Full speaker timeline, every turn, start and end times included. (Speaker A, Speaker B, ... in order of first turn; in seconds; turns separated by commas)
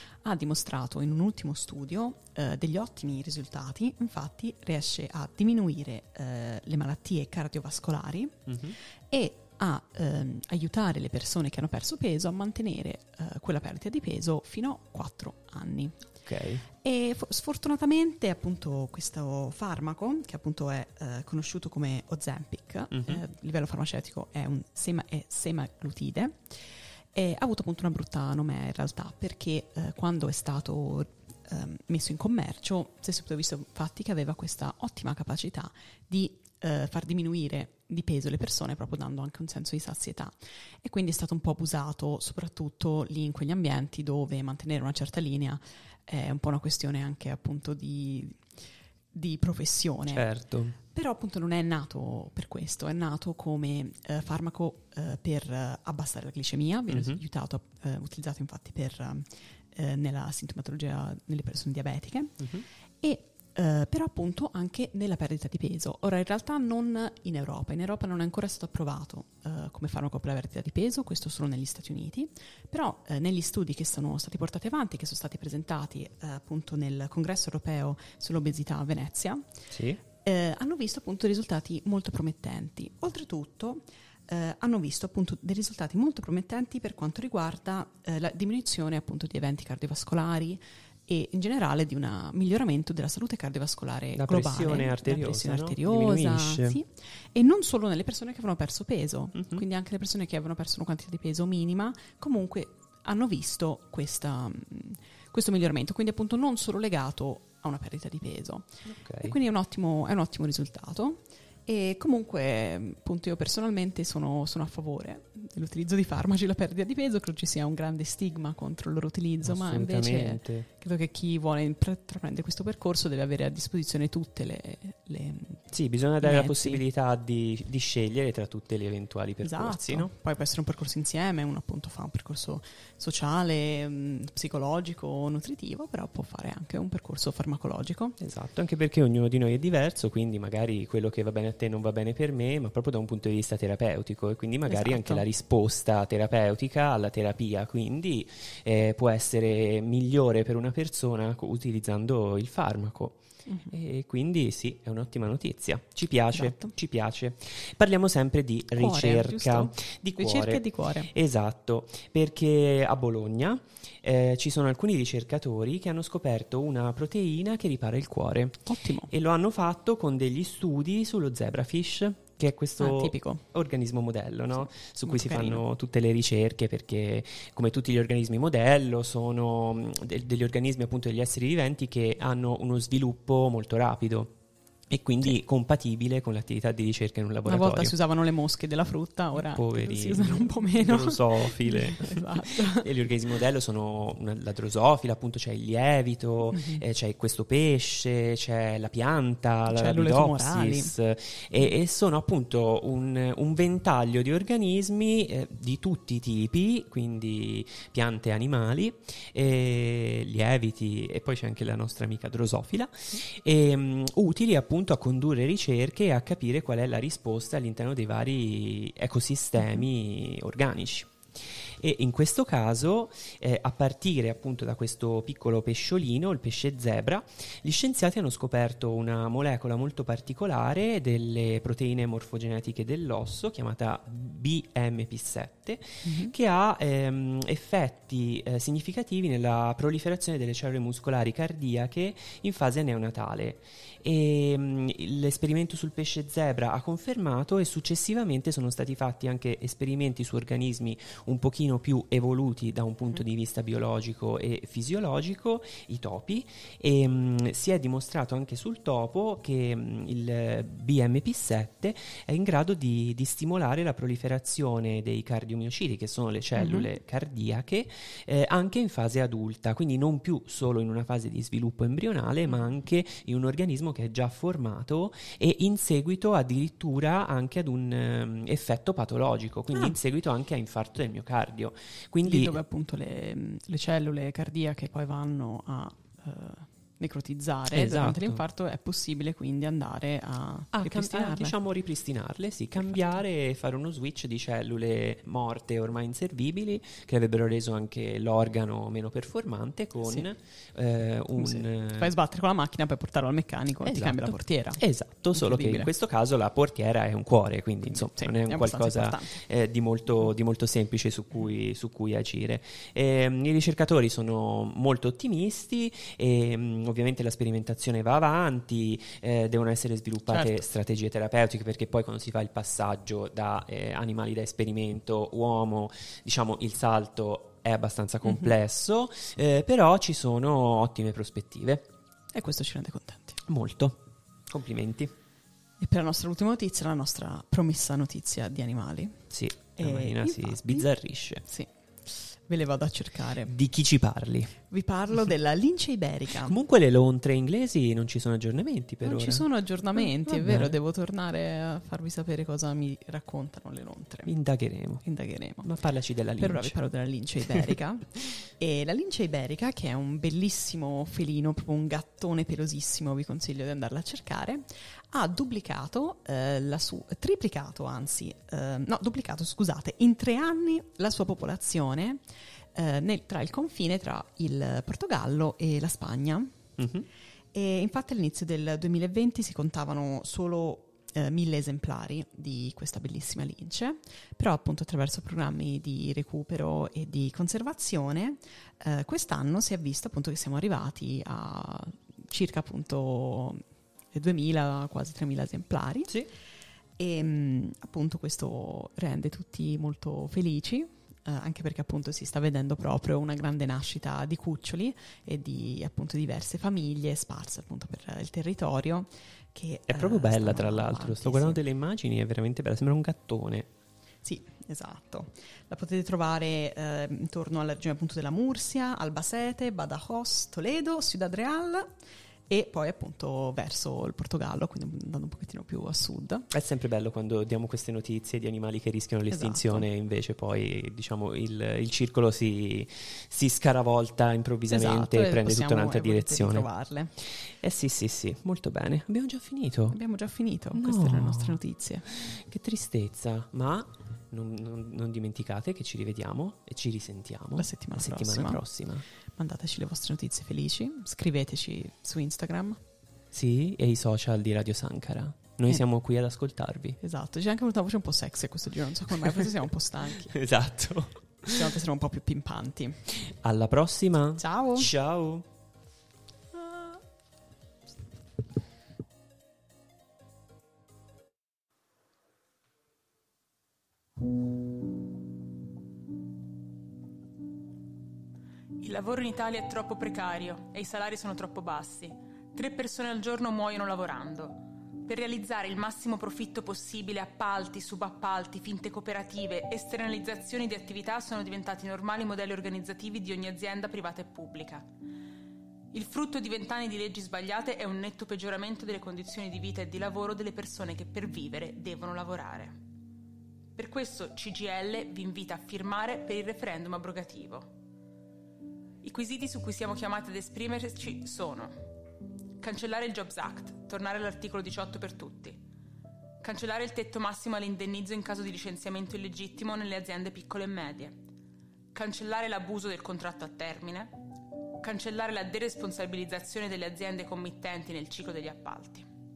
Speaker A: 0.2-8.6, Speaker B: 8.5-8.7, Speaker A: 9.1-16.1, Speaker B: 16.2-16.6, Speaker A: 16.7-26.4, Speaker B: 22.9-23.2, Speaker A: 27.1-48.4, Speaker A: 49.1-50.3, Speaker B: 50.1-50.8, Speaker A: 50.8-62.5, Speaker B: 56.9-57.2, Speaker B: 62.4-62.6, Speaker A: 63.0-79.4, Speaker B: 79.7-80.0, Speaker A: 80.2-125.6, Speaker B: 94.1-96.8, Speaker B: 99.4-99.6, Speaker B: 108.8-109.3, Speaker B: 119.4-120.7, Speaker B: 125.7-130.1, Speaker A: 126.2-126.8, Speaker A: 129.4-138.2, Speaker B: 138.2-153.2, Speaker A: 144.7-145.2, Speaker A: 153.5-153.7, Speaker B: 153.7-184.3, Speaker A: 156.3-156.7, Speaker A: 158.7-161.1, Speaker A: 168.7-169.1, Speaker A: 172.8-173.4, Speaker A: 175.0-175.6, Speaker B: 184.9-187.9, Speaker A: 187.4-193.1, Speaker B: 189.3-221.1, Speaker A: 196.5-196.8, Speaker A: 199.7-200.9, Speaker B: 221.8-282.6, Speaker A: 236.0-236.3, Speaker A: 266.6-266.9, Speaker A: 282.2-291.6, Speaker B: 287.7-288.4, Speaker B: 290.7-302.1, Speaker A: 300.0-300.3, Speaker A: 301.4-305.9, Speaker B: 303.8-331.8, Speaker A: 307.9-309.4, Speaker A: 328.2-328.5, Speaker A: 332.3-333.4, Speaker B: 333.5-334.0, Speaker B: 334.5-335.1, Speaker A: 335.8-343.5, Speaker B: 339.3-341.4, Speaker B: 343.4-344.5, Speaker A: 344.7-346.6, Speaker B: 346.3-349.4, Speaker A: 349.0-354.3, Speaker B: 350.0-350.8, Speaker B: 354.3-355.0, Speaker A: 355.0-355.7, Speaker B: 355.6-356.8, Speaker A: 356.4-372.2, Speaker A: 372.7-376.6, Speaker B: 376.8-377.0, Speaker A: 377.5-393.6, Speaker A: 394.1-396.1, Speaker A: 397.0-411.6, Speaker B: 409.9-413.7, Speaker A: 414.2-421.9, Speaker A: 422.5-426.5, Speaker B: 426.5-436.7, Speaker A: 429.3-429.9, Speaker A: 434.7-437.1, Speaker B: 437.6-440.0, Speaker A: 439.9-442.1, Speaker B: 440.7-449.0, Speaker A: 447.6-448.6, Speaker A: 449.4-452.8, Speaker B: 453.3-457.0, Speaker A: 457.0-460.3, Speaker B: 460.3-461.7, Speaker A: 461.4-463.0, Speaker B: 463.2-465.4, Speaker A: 464.4-464.9, Speaker C: 478.8-494.9, Speaker C: 495.9-502.8, Speaker C: 503.8-507.7, Speaker C: 509.0-511.8, Speaker C: 512.6-515.6, Speaker C: 516.4-521.2, Speaker C: 521.9-524.1, Speaker C: 524.8-529.1